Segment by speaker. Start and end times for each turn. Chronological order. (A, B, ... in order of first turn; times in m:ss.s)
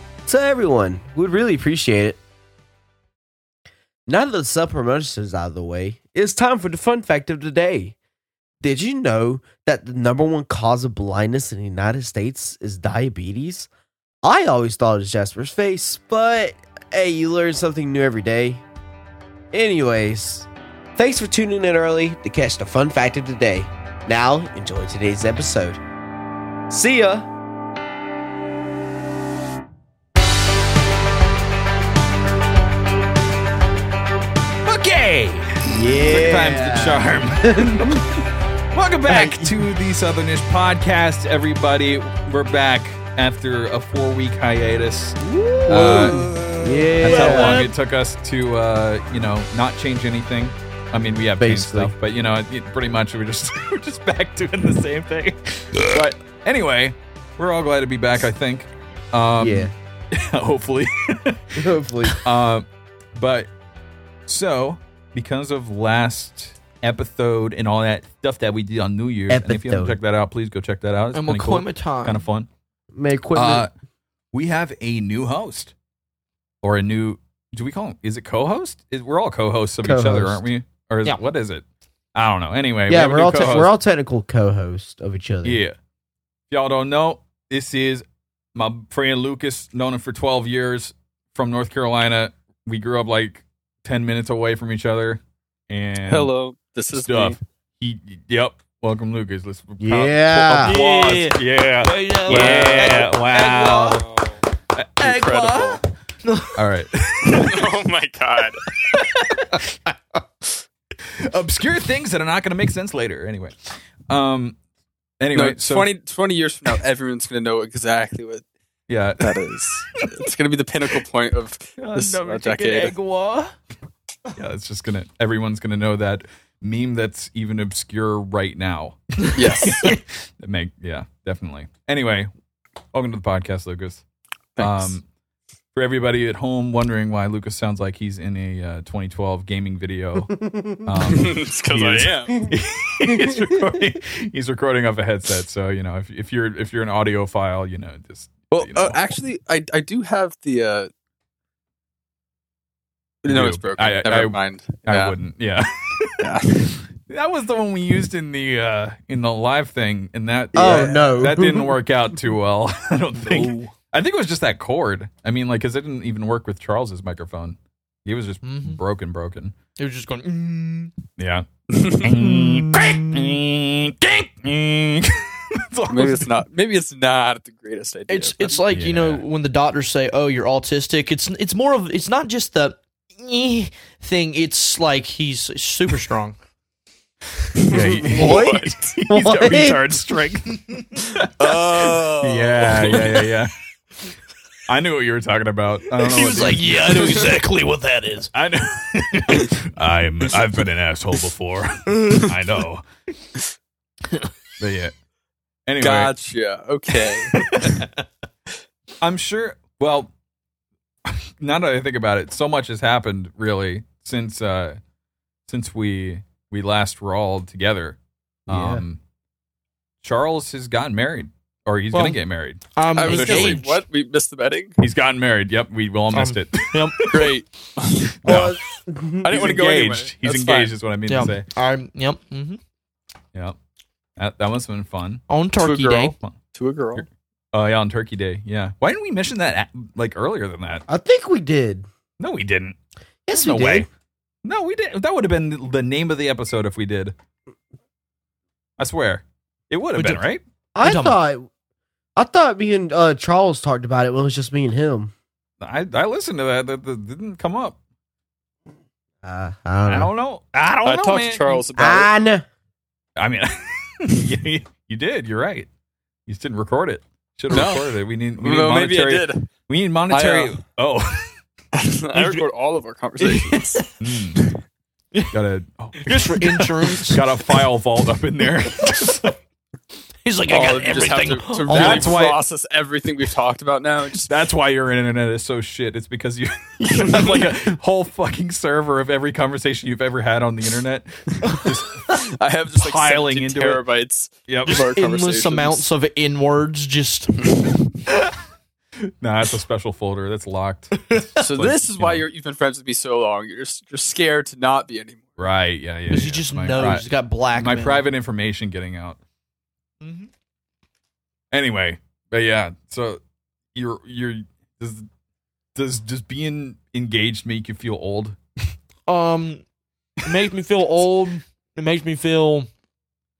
0:00.2-0:02.2 A
0:04.1-0:07.9 A
0:08.6-0:13.7 A
0:14.2-0:18.6 A
0:19.5-0:25.8 A
0:26.7-0:27.3 A
0:34.6-0:38.1 B
0:35.6-0:38.0 A
0:38.7-0:46.2 B
0:39.0-0:39.6 A
0:45.2-0:47.7 A
0:45.7-0:47.7 C
0:47.0-1:03.5 B
0:51.4-0:52.0 A
0:59.4-0:59.7 A
1:01.6-1:02.2 A
1:04.3-1:12.5 B
1:09.3-1:10.0 A
1:11.1-1:12.2 C
1:12.9-1:13.7 A
1:13.3-1:13.7 B
1:14.3-1:15.7 B
1:16.6-1:23.7 B
1:19.8-1:20.4 A
1:22.9-1:25.6 A
1:25.4-1:25.8 B
1:26.5-1:36.3 B
1:36.0-1:37.4 D
1:37.0-1:44.1 B
1:39.8-1:40.8 A
1:40.6-1:44.0 C
1:42.3-1:43.0 D
1:43.9-1:44.3 D
1:44.7-1:45.6 B
1:45.0-1:45.8 D
1:45.0-1:45.6 C
1:46.2-1:46.6 C
1:46.6-1:47.7 B
1:47.3-1:48.6 D
1:48.9-1:49.6 C
1:51.2-1:54.6 B
1:55.2-1:55.9 B
1:55.3-1:58.4 D
1:58.9-1:59.4 B
1:59.2-2:03.0 D
2:01.8-2:03.5 B
2:04.3-2:12.3 B
2:09.3-2:09.9 D
2:12.9-2:14.0 B
2:14.6-2:15.0 D
2:14.6-2:15.0 B
2:15.7-2:29.0 B
2:20.5-2:20.8 A
2:21.0-2:22.4 D
2:23.1-2:23.6 A
2:28.5-2:30.9 D
2:33.2-2:35.2 D
2:33.3-2:49.5 B
2:36.2-2:36.6 D
2:40.5-2:41.8 A
2:40.6-2:41.1 D
2:43.3-2:43.5 D
2:48.4-2:48.8 C
2:49.8-2:50.9 C
2:51.2-2:56.4 B
2:51.7-2:52.2 D
2:52.3-2:53.3 C
2:55.9-2:58.6 D
2:58.1-3:06.4 C
2:58.7-2:59.2 B
3:07.6-3:09.0 D
3:07.6-3:13.5 B
3:07.7-3:09.8 A
3:11.2-3:13.2 D
3:14.7-3:17.4 B
3:15.9-3:18.3 C
3:18.3-3:22.8 B
3:21.9-3:22.3 C
3:24.6-3:24.9 B
3:25.7-3:26.1 B
3:25.8-3:27.4 D
3:27.3-3:27.9 B
3:29.0-3:30.1 B
3:31.0-3:34.8 B
3:35.5-3:39.0 B
3:38.5-3:38.8 A
3:40.0-3:43.7 B
3:41.9-3:42.2 C
3:42.7-3:43.8 C
3:42.9-3:44.8 D
3:44.8-3:47.3 B
3:46.1-3:47.1 C
3:47.1-3:48.3 D
3:48.2-3:48.6 B
3:48.2-3:49.3 A
3:49.2-3:50.7 D
3:49.3-3:51.4 B
3:51.1-3:52.6 C
3:54.2-3:55.2 B
3:55.3-3:56.1 C
3:55.6-3:57.0 D
3:56.9-4:00.8 B
4:00.9-4:01.9 A
4:02.2-4:02.8 B
4:03.3-4:03.9 A
4:03.3-4:03.9 B
4:04.4-4:07.1 B
4:08.8-4:10.4 B
4:10.7-4:11.5 A
4:10.8-4:11.2 C
4:12.2-4:15.1 A
4:15.6-4:17.8 B
4:19.2-4:20.1 A
4:19.9-4:21.6 B
4:20.8-4:22.1 D
4:21.7-4:22.4 A
4:23.2-4:25.7 B
4:26.3-4:31.3 B
4:27.5-4:29.5 D
4:30.1-4:30.6 D
4:31.7-4:33.8 D
4:33.2-4:34.0 C
4:34.0-4:34.4 B
4:35.3-4:39.4 B
4:36.0-4:37.2 C
4:40.2-4:42.1 C
4:40.5-4:44.3 D
4:41.7-4:42.4 B
4:44.2-4:52.1 B
4:52.0-4:55.9 D
4:52.8-4:53.8 B
4:54.5-4:54.8 B
4:54.7-4:57.4 C
4:59.2-5:02.2 B
5:01.0-5:01.4 C
5:01.4-5:05.4 D
5:05.4-5:09.2 B
5:06.1-5:08.0 C
5:10.0-5:10.3 C
5:11.5-5:13.2 B
5:13.7-5:15.1 B
5:15.7-5:18.4 B
5:19.1-5:19.6 C
5:20.2-5:22.7 C